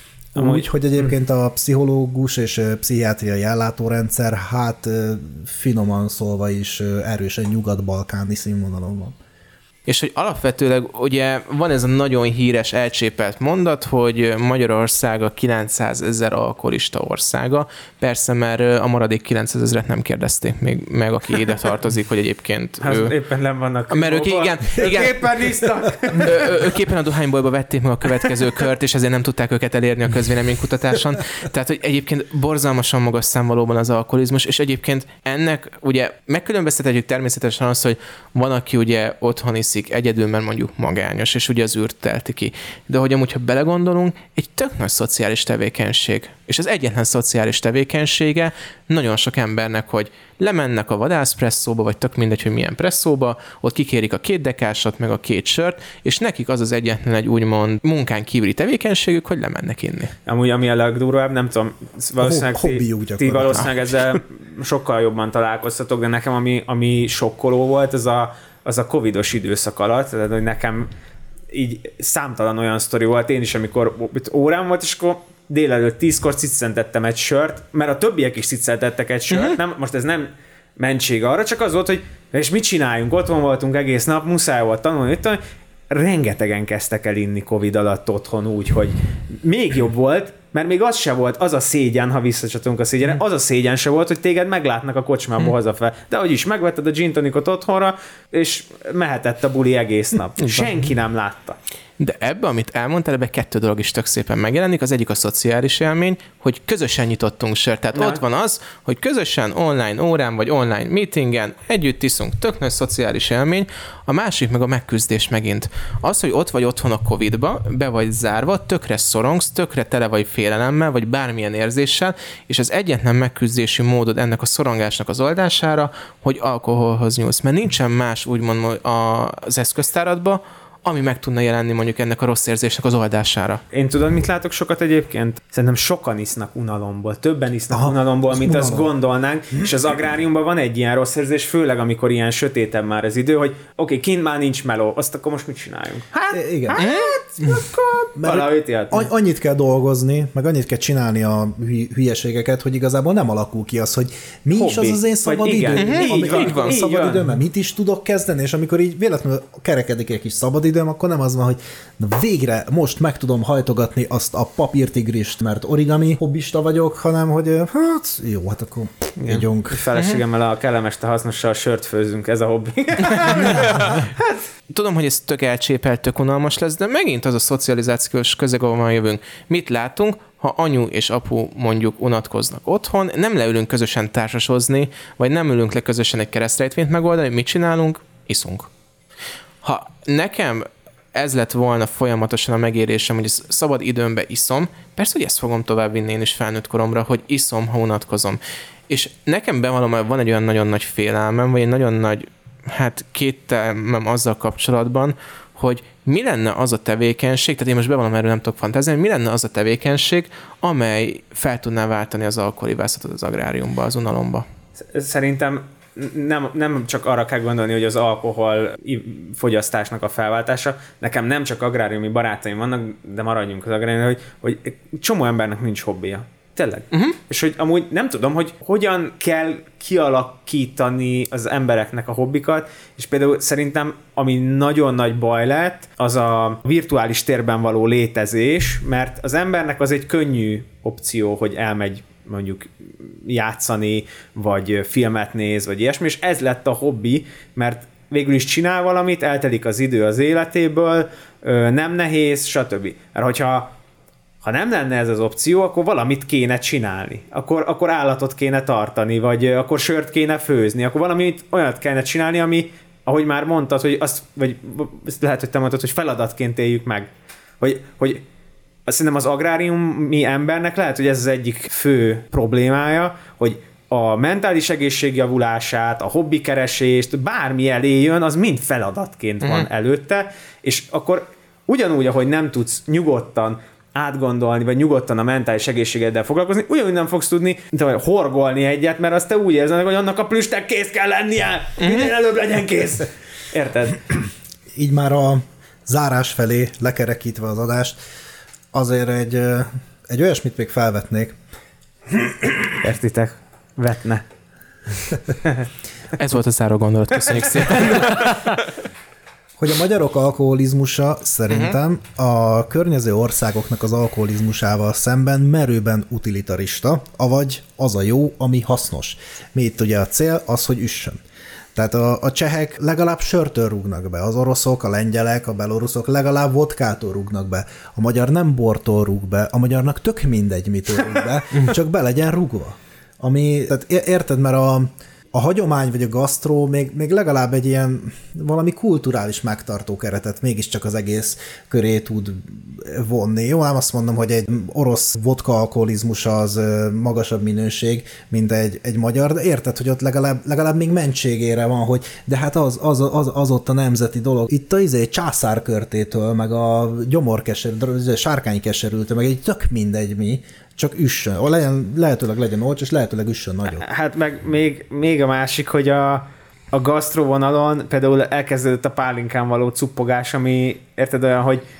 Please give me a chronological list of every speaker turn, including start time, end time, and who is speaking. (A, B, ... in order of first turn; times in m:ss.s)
0:00.3-0:01.1 A
0:00.3-0:09.1 B
0:09.8-0:23.1 C
0:22.8-0:26.5 A
0:23.9-0:25.2 C
0:26.2-1:00.1 C
1:00.2-1:10.9 A
1:02.2-1:03.7 B
1:11.5-1:41.6 A
1:19.3-1:19.6 C
1:42.0-2:13.6 C
1:47.9-1:48.2 A
2:13.7-2:29.1 A
2:17.7-2:18.9 B
2:26.3-2:26.8 B
2:26.8-2:27.2 C
2:28.2-2:49.9 B
2:34.5-2:37.3 A
2:35.7-2:36.8 C
2:49.2-2:54.4 A
2:50.0-2:50.2 C
2:53.1-2:54.0 C
2:54.7-3:08.7 C
3:09.6-3:34.5 C
3:34.8-4:13.7 A
3:46.9-3:47.2 C
4:14.4-4:27.1 A
4:27.6-4:28.2 A
4:28.9-4:54.0 A
4:39.4-4:39.7 C
4:51.8-4:52.1 C
4:54.7-4:58.0 B
4:58.7-5:01.4 B
5:02.1-5:02.7 B
5:02.8-5:04.2 A
5:06.2-5:08.4 C
5:09.6-5:21.2 B
5:21.7-6:03.8 B
6:03.8-6:11.6 A